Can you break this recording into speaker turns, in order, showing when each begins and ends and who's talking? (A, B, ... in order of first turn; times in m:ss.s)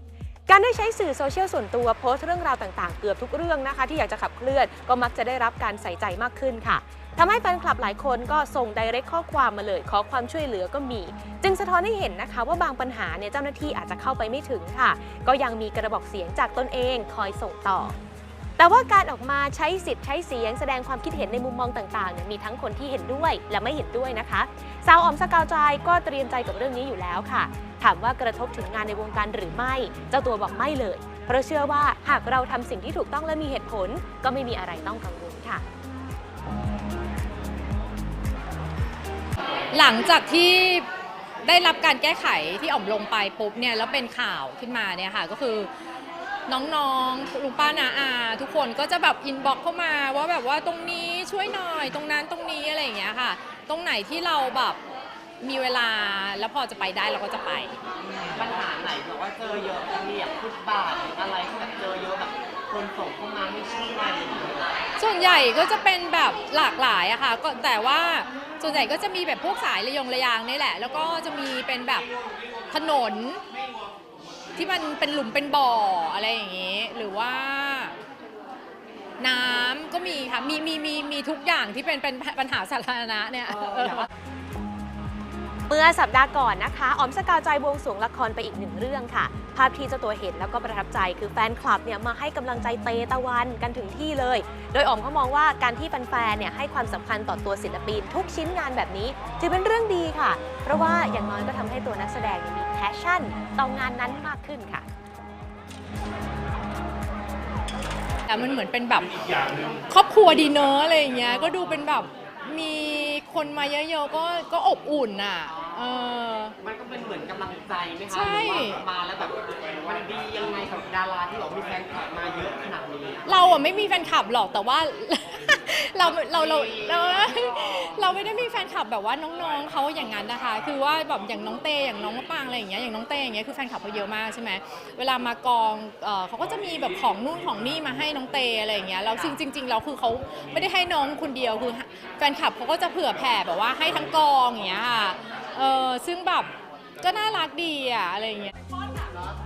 0:00.5-0:18.0 A
0:18.6-0:35.6 A
0:39.7-0:40.9 B
0:41.4-0:45.7 B
0:46.5-0:54.8 B
0:55.4-0:57.8 B
0:58.3-1:04.6 C
1:05.0-1:12.1 B
1:12.7-1:13.4 B
1:14.6-1:18.0 B
1:19.2-1:24.1 B
1:25.7-1:44.8 A
1:48.3-1:49.1 B
1:49.9-1:56.5 B
1:55.5-1:55.9 C
1:56.6-2:03.3 C
1:58.1-1:58.8 B
2:03.3-2:28.5 B
2:06.2-2:08.0 C